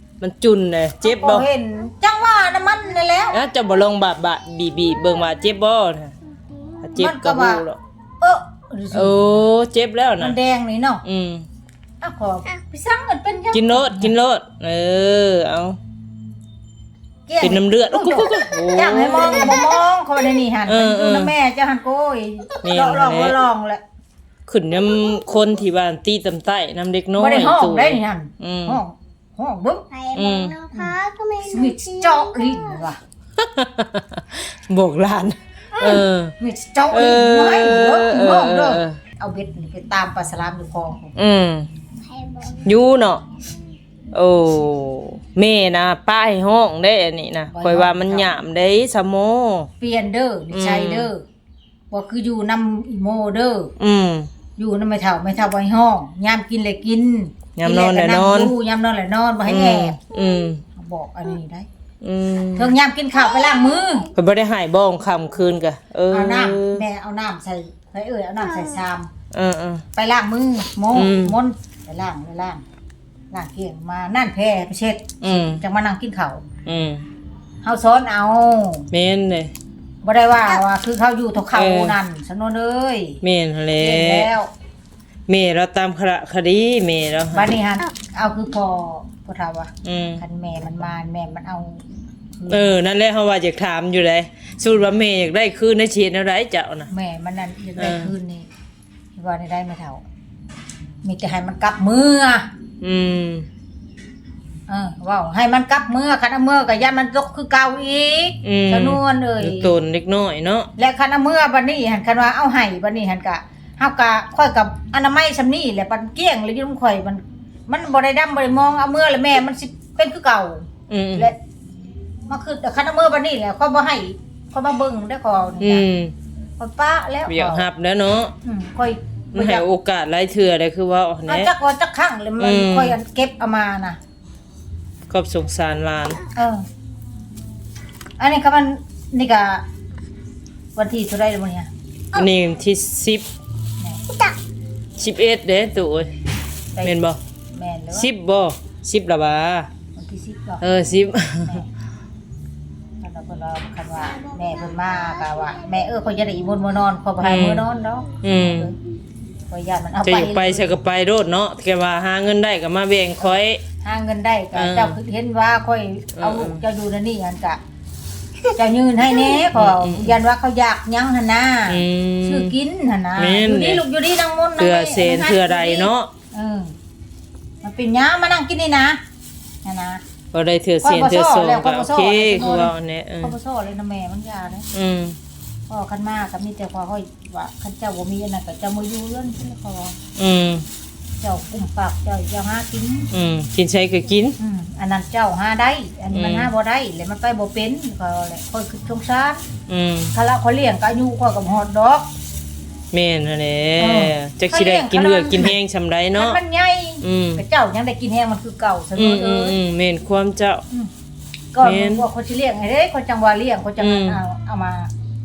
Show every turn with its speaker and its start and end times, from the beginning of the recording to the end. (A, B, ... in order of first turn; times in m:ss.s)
0:00.2-0:01.5 A
0:01.0-0:03.4 B
0:03.3-0:06.1 A
0:04.7-0:05.3 C
0:06.2-0:07.0 C
0:06.8-0:07.8 A
0:06.9-0:07.6 B
0:08.2-0:09.4 B
0:08.9-0:10.4 A
0:10.2-0:11.0 B
0:11.0-0:11.4 A
0:12.0-0:14.1 B
0:13.5-0:15.8 A
0:17.3-0:23.8 B
0:17.4-0:19.6 A
0:19.1-0:19.8 C
0:20.7-0:21.3 A
0:22.6-0:23.4 A
0:24.5-0:28.8 A
0:27.2-0:29.8 B
0:29.9-0:32.9 C
0:30.1-0:30.6 A
0:30.7-0:33.0 B
0:33.4-0:36.3 A
0:35.7-0:41.1 B
0:36.9-0:39.0 A
0:41.2-0:41.7 A
0:42.0-0:42.8 C
0:42.6-0:43.2 A
0:44.1-0:49.7 A
0:47.5-0:48.3 B
0:49.8-0:51.2 B
0:50.5-0:51.1 A
0:51.9-0:53.7 B
0:53.8-0:54.3 A
0:54.6-1:00.0 B
0:57.6-0:58.5 A
0:59.4-1:00.6 A
1:00.2-1:00.4 C
1:00.7-1:01.7 B
1:02.0-1:02.8 A
1:02.6-1:04.1 B
1:03.2-1:04.1 C
1:04.1-1:06.8 A
1:06.1-1:09.1 B
1:08.5-1:08.8 C
1:09.3-1:09.8 A
1:10.0-1:12.6 B
1:10.9-1:11.4 A
1:13.3-1:16.4 B
1:15.2-1:15.6 A
1:16.6-1:17.0 A
1:17.6-1:18.9 B
1:18.9-1:19.5 A
1:20.0-1:23.2 B
1:21.5-1:22.0 A
1:23.2-1:24.3 A
1:23.8-1:24.5 B
1:25.3-1:27.5 A
1:27.3-1:31.8 B
1:29.8-1:30.2 A
1:32.4-1:32.8 B
1:32.5-1:36.9 A
1:36.9-1:38.5 B
1:37.8-1:38.1 A
1:39.1-1:40.0 B
1:41.0-1:42.5 B
1:42.8-1:43.5 A
1:44.7-1:49.7 B
1:48.4-1:50.7 A
1:50.8-2:01.4 B
2:00.9-2:01.3 A
2:02.3-2:05.9 B
2:05.6-2:06.1 A
2:06.6-2:07.6 B
2:07.3-2:08.3 A
2:08.4-2:09.6 B
2:09.3-2:11.5 A
2:11.3-2:14.0 B
2:12.4-2:13.0 A
2:15.1-2:16.2 A
2:16.3-2:16.6 B
2:18.2-2:19.6 B
2:20.8-2:21.7 B
2:22.1-2:23.2 A
2:24.1-2:24.4 C
2:25.0-2:26.1 A
2:26.8-2:27.2 A
2:27.5-2:28.1 B
2:27.9-2:29.7 A
2:30.0-2:30.6 B
2:30.6-2:31.6 A
2:33.0-2:38.7 B
2:34.0-2:36.4 C
2:37.2-2:37.7 A
2:38.2-2:38.7 A
2:39.5-2:40.8 B
2:40.0-2:43.6 A
2:43.8-2:47.6 B
2:44.5-2:45.0 A
2:46.1-2:46.6 A
2:48.5-2:56.8 B
2:49.5-2:50.2 A
2:51.7-2:52.5 A
2:53.2-2:53.8 A
2:54.6-2:56.1 A
2:57.6-2:59.0 B
2:59.6-3:00.0 B
3:00.3-3:03.4 A
3:00.8-3:04.7 B
3:04.7-3:05.2 A
3:05.7-3:10.0 B
3:10.2-3:10.6 A
3:11.2-3:13.1 B
3:13.1-3:14.4 A
3:14.4-3:19.4 B
3:16.1-3:16.5 A
3:19.7-3:20.1 A
3:20.1-3:22.1 B
3:22.9-3:26.4 A
3:23.8-3:25.6 B
3:26.2-3:29.6 B
3:27.0-3:27.4 A
3:29.0-3:30.6 A
3:31.5-3:34.9 B
3:31.6-3:32.0 A
3:33.8-3:34.2 A